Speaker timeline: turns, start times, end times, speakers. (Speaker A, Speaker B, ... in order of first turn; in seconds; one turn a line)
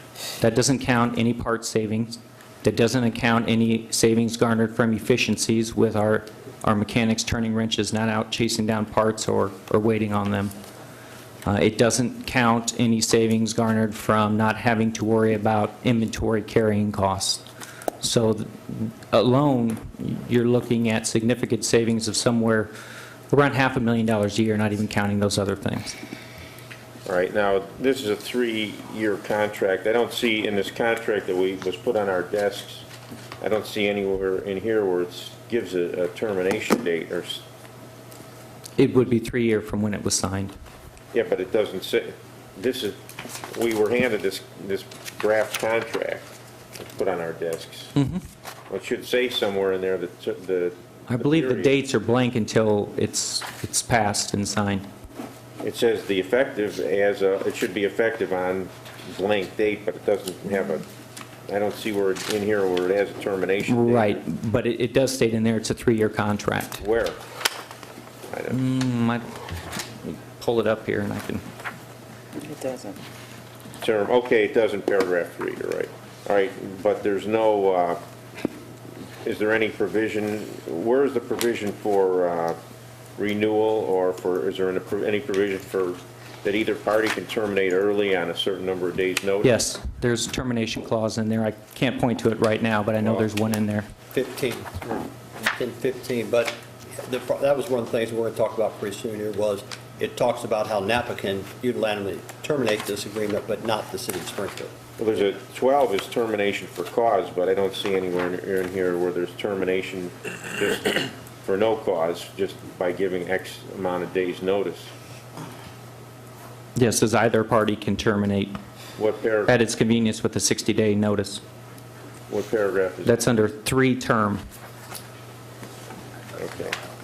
Speaker A: 0.4-10.5
Speaker A: 11.4-17.4
Speaker A: 18.0-22.7
Speaker A: 23.3-25.9
Speaker B: 27.1-32.9
Speaker B: 33.4-37.4
Speaker A: 38.8-40.5
Speaker B: 41.1-43.0
Speaker B: 43.5-46.3
Speaker B: 46.8-47.9
Speaker A: 48.0-48.2
Speaker B: 48.7-51.7
Speaker A: 51.1-54.9
Speaker B: 55.6-60.9
Speaker B: 61.5-64.2
Speaker A: 63.7-66.8
Speaker B: 66.8-67.2
Speaker B: 68.3-68.6
Speaker A: 68.5-69.3
Speaker A: 70.0-71.4
Speaker B: 73.8-78.0
Speaker B: 79.2-82.6
Speaker B: 83.2-89.6
Speaker A: 89.4-93.9
Speaker B: 93.0-93.3
Speaker C: 94.1-94.8
Speaker C: 95.4-104.7
Speaker B: 105.0-114.9
Speaker A: 116.8-118.6
Speaker B: 119.0-119.5
Speaker A: 119.5-121.4
Speaker B: 122.3-123.2
Speaker A: 123.0-124.4
Speaker B: 126.4-126.8